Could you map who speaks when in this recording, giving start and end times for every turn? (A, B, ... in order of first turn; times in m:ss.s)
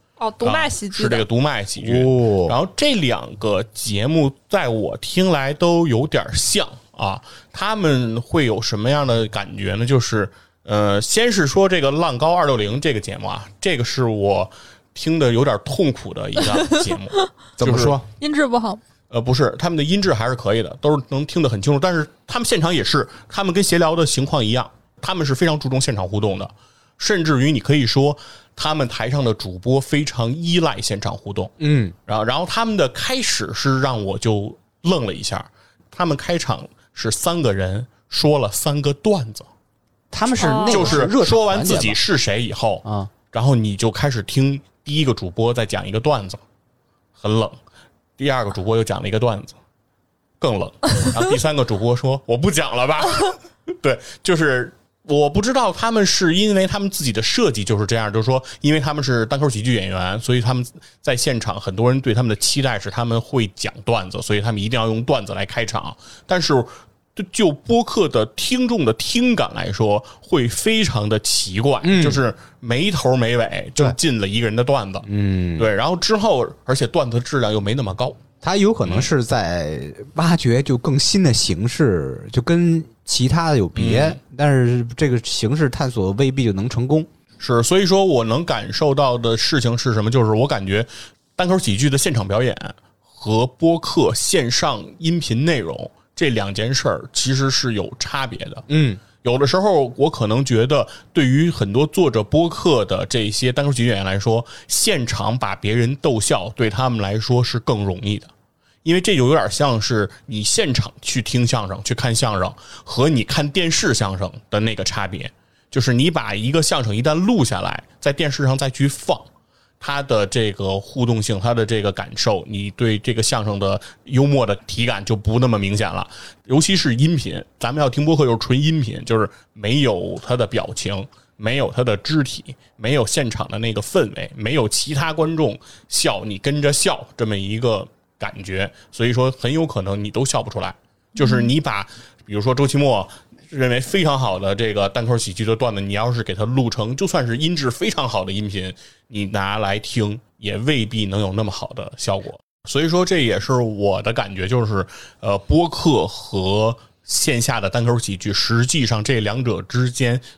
0:00.2-0:01.2 A
0:00.4-0:18.0 B
0:01.8-0:02.6 C
0:16.6-0:17.3 A
0:17.6-0:18.0 C
0:18.2-0:18.8 A
0:19.1-0:31.5 B
0:31.6-0:32.0 C
0:32.1-0:39.5 B
0:40.1-0:42.0 C
0:40.4-0:41.0 A
0:40.6-0:46.4 B
0:42.8-0:43.1 C
0:47.2-0:47.6 B
0:48.2-0:49.6 B
0:50.4-1:15.0 B
1:11.8-1:12.2 C
1:15.0-1:15.7 C
1:15.6-1:18.2 B
1:18.4-1:27.1 C
1:23.8-1:24.2 B
1:27.4-1:38.6 B
1:38.7-1:39.0 C
1:39.2-1:48.3 B
1:48.8-1:59.3 B
1:59.8-2:40.2 B
2:21.2-2:21.5 A